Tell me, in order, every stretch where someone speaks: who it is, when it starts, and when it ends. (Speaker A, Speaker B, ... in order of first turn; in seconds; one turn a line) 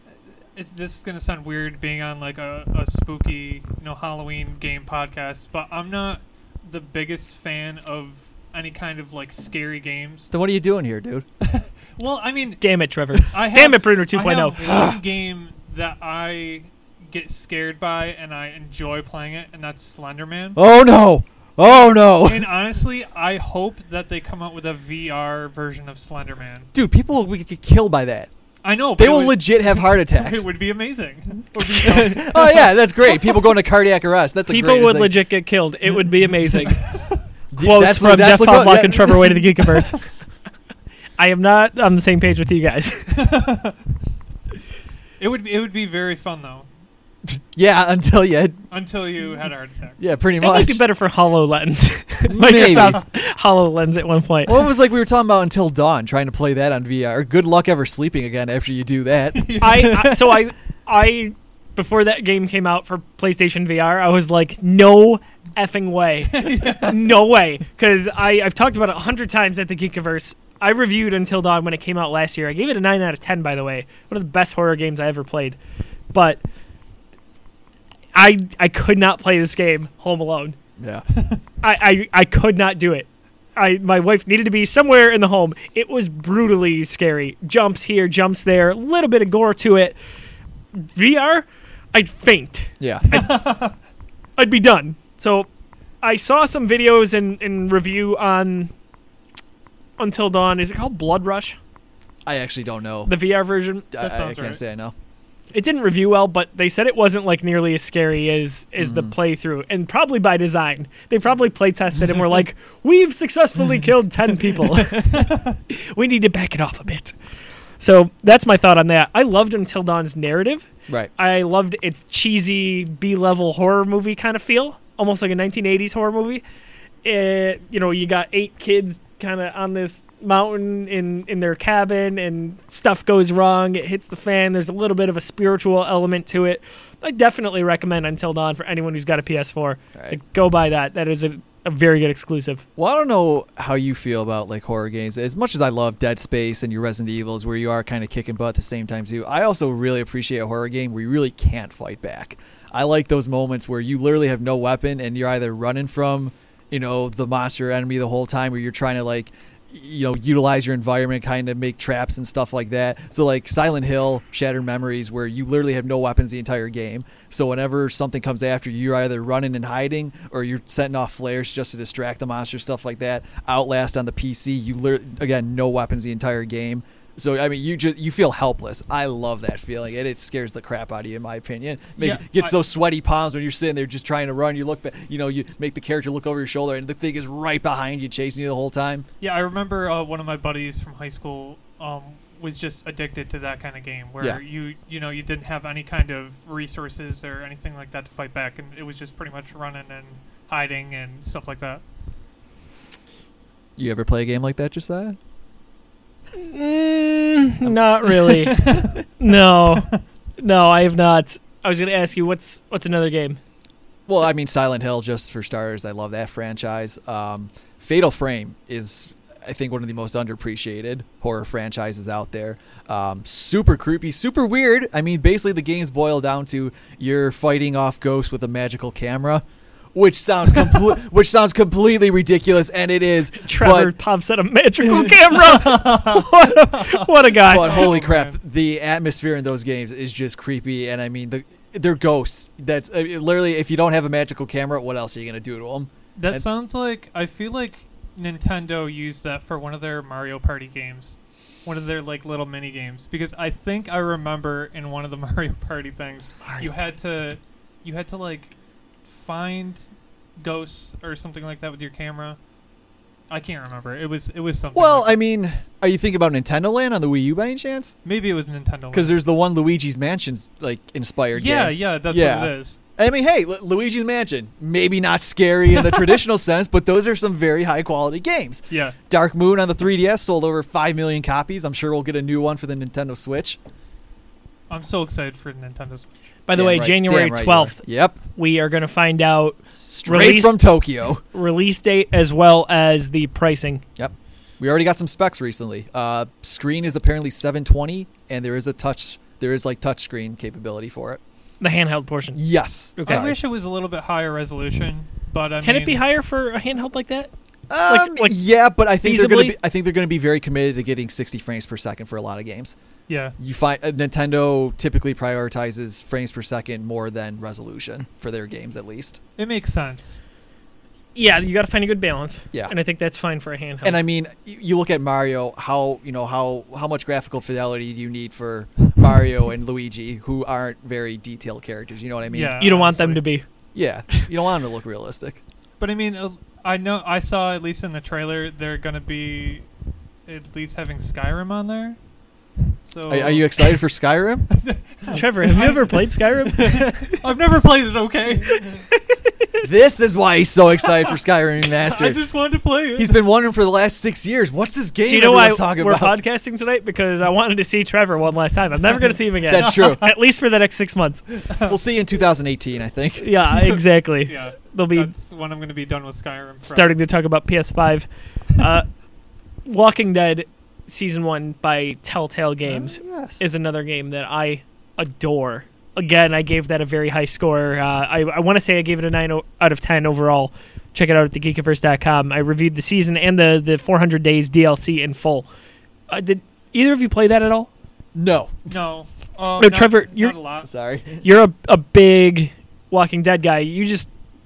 Speaker A: 0.5-10.3
Speaker B: 10.3-11.2
Speaker A: 11.4-12.6
Speaker C: 12.6-14.6
Speaker A: 13.3-20.6
Speaker B: 14.6-15.0
Speaker B: 20.6-22.5
Speaker A: 22.1-26.7
Speaker B: 26.7-28.3
Speaker A: 28.6-32.7
Speaker B: 28.9-30.5
Speaker B: 31.8-35.1
Speaker C: 34.5-36.8
Speaker A: 36.7-37.2
Speaker B: 37.5-39.4
Speaker C: 37.5-40.0
Speaker C: 41.2-43.2
Speaker A: 43.1-43.8
Speaker A: 45.2-46.7
Speaker B: 47.2-48.6
Speaker A: 48.7-50.0
Speaker B: 50.0-50.8
Speaker C: 50.4-54.6
Speaker B: 52.3-53.0
Speaker A: 52.6-53.0
Speaker B: 54.4-60.5
Speaker A: 59.3-59.9
Speaker C: 59.6-75.6
Speaker A: 66.3-67.0
Speaker C: 76.1-76.4
Speaker C: 78.1-80.5
Speaker B: 80.8-81.0
Speaker C: 81.6-90.0
Speaker C: 90.7-93.3
Speaker B: 92.8-93.1
Speaker A: 93.1-93.8
Speaker C: 94.4-95.5
Speaker C: 96.0-98.7
Speaker C: 100.0-101.6
Speaker B: 102.2-103.1
Speaker C: 103.0-103.9
Speaker B: 103.9-104.9
Speaker A: 104.0-104.6
Speaker C: 105.5-117.1
Speaker B: 108.8-109.1
Speaker B: 114.5-115.1
Speaker A: 115.0-115.6
Speaker C: 117.8-126.4
Speaker C: 127.0-142.6
Speaker B: 142.8-189.1
Speaker A: 182.0-182.5
Speaker A: 189.2-201.8
Speaker B: 203.8-205.2
Speaker C: 206.4-213.4
Speaker B: 207.6-209.0
Speaker A: 208.6-208.9
Speaker A: 209.7-210.0
Speaker B: 214.1-233.9
Speaker C: 233.4-237.9
Speaker B: 234.8-235.2
Speaker A: 235.4-238.4
Speaker B: 237.4-246.4
Speaker A: 246.2-258.5
Speaker A: 259.1-259.9
Speaker A: 260.4-262.4
Speaker A: 263.3-265.1
Speaker B: 264.7-267.9
Speaker A: 268.0-269.1
Speaker B: 268.9-283.6
Speaker A: 271.3-272.8
Speaker A: 278.7-278.9
Speaker A: 284.7-286.3
Speaker C: 286.5-290.6
Speaker B: 286.5-288.2
Speaker B: 289.7-291.2
Speaker C: 291.3-293.8
Speaker B: 294.0-301.2
Speaker C: 301.6-302.4
Speaker B: 302.4-303.4
Speaker C: 302.9-303.2
Speaker A: 303.1-306.0
Speaker C: 305.6-307.3
Speaker B: 307.7-312.8
Speaker C: 307.9-308.4
Speaker C: 309.0-309.5
Speaker A: 313.1-313.3
Speaker B: 313.4-319.2
Speaker A: 319.4-320.2
Speaker C: 321.1-324.0
Speaker B: 323.8-332.6
Speaker A: 332.3-333.2
Speaker C: 332.6-333.4
Speaker B: 333.7-335.4
Speaker A: 335.8-339.6
Speaker A: 340.3-342.0
Speaker A: 342.8-343.7
Speaker B: 343.1-344.5
Speaker A: 344.5-348.8
Speaker C: 345.1-346.9
Speaker B: 346.5-347.1
Speaker B: 349.6-352.2
Speaker A: 351.8-353.2
Speaker B: 352.9-356.2
Speaker C: 355.1-361.2
Speaker B: 359.4-360.1
Speaker A: 359.5-360.0
Speaker B: 361.6-363.6
Speaker C: 363.2-365.1
Speaker A: 364.2-366.9
Speaker C: 366.7-368.9
Speaker C: 369.6-385.5
Speaker B: 372.6-373.5
Speaker C: 386.1-387.7
Speaker B: 388.1-388.7
Speaker A: 388.7-390.7
Speaker C: 389.6-390.4
Speaker B: 390.6-391.2
Speaker C: 391.2-394.1